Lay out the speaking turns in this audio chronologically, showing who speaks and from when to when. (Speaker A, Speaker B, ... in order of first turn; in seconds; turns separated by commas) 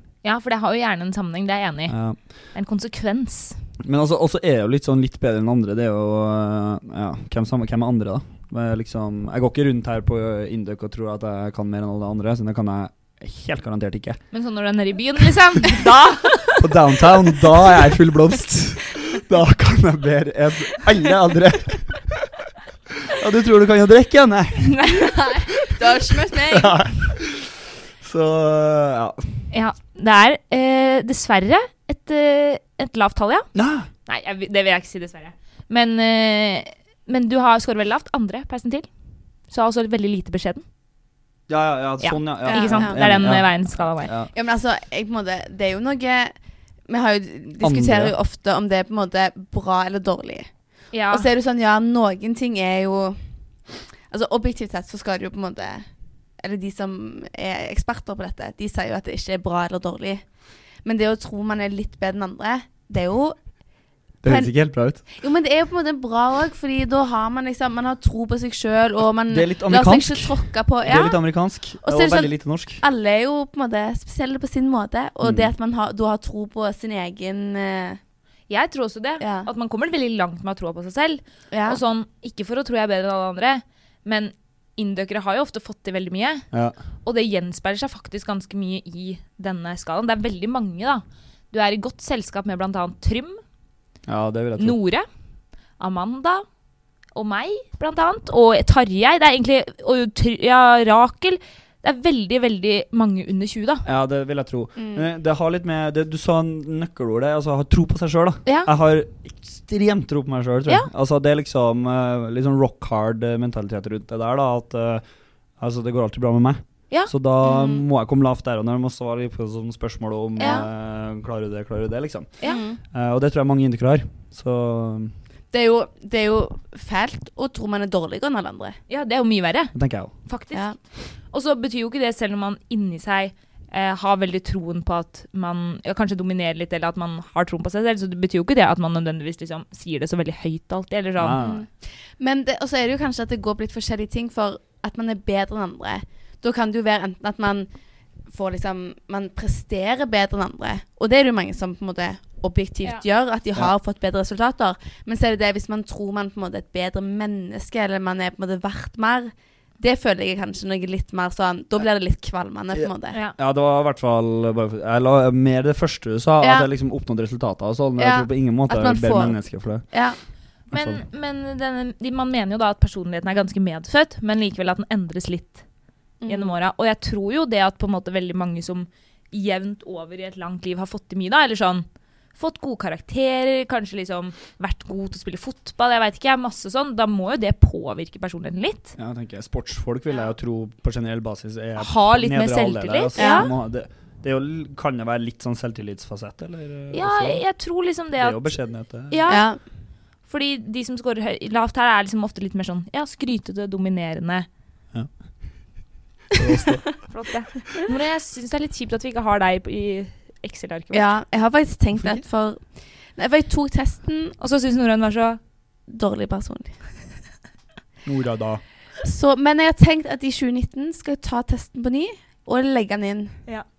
Speaker A: 0.2-1.9, Speaker B: 1.9-2.2, Speaker A: 2.5-3.6, Speaker B: 3.8-14.2, Speaker A: 14.3-16.6, Speaker B: 16.6-22.3, Speaker B: 23.0-24.9, Speaker A: 24.6-25.1, Speaker C: 24.9-26.8, Speaker B: 26.5-29.2, Speaker A: 29.5-33.5, Speaker B: 33.5-33.9, Speaker A: 34.0-38.9, Speaker A: 39.5-40.6, Speaker B: 41.5-44.3, Speaker A: 42.0-44.1, Speaker C: 42.4-43.0, Speaker C: 44.3-46.3, Speaker C: 46.9-50.5, Speaker B: 47.6-48.1, Speaker A: 50.9-51.3, Speaker C: 51.1-53.2, Speaker C: 54.1-55.9, Speaker C: 56.4-60.2, Speaker C: 60.8-63.4, Speaker B: 64.2-65.0, Speaker C: 64.2-64.5, Speaker C: 65.1-71.2, Speaker B: 69.3-72.8, Speaker C: 71.8-78.0, Speaker B: 75.2-75.5, Speaker A: 78.5-86.5, Speaker C: 79.2-79.5, Speaker C: 81.5-81.8, Speaker A: 87.0-93.4, Speaker B: 94.1-94.8, Speaker A: 94.6-95.0, Speaker A: 95.8-96.4, Speaker A: 97.1-103.8, Speaker B: 103.8-115.0, Speaker C: 104.8-105.0, Speaker B: 115.6-125.1, Speaker C: 117.4-117.8, Speaker A: 120.4-120.7, Speaker C: 120.4-120.7, Speaker C: 122.4-122.8, Speaker C: 125.5-128.8, Speaker A: 128.9-129.7, Speaker B: 129.7-130.1, Speaker A: 130.2-130.7, Speaker A: 131.3-141.5, Speaker B: 141.2-141.6, Speaker C: 141.4-147.7, Speaker C: 148.3-163.2, Speaker B: 162.7-169.8, Speaker C: 166.4-166.7, Speaker C: 168.0-169.4, Speaker C: 169.9-170.2, Speaker B: 170.7-171.0, Speaker A: 170.7-175.6, Speaker C: 176.2-176.6, Speaker A: 176.3-188.9, Speaker B: 189.0-197.4, Speaker A: 191.8-193.5, Speaker C: 193.2-193.5, Speaker A: 196.9-198.5, Speaker B: 198.2-199.2, Speaker A: 199.1-199.5, Speaker C: 199.3-199.6, Speaker A: 200.2-204.5, Speaker B: 206.3-207.1, Speaker A: 207.1-211.1, Speaker C: 210.9-214.3, Speaker A: 214.4-215.4, Speaker C: 215.9-216.8, Speaker B: 218.0-218.6, Speaker C: 219.0-223.4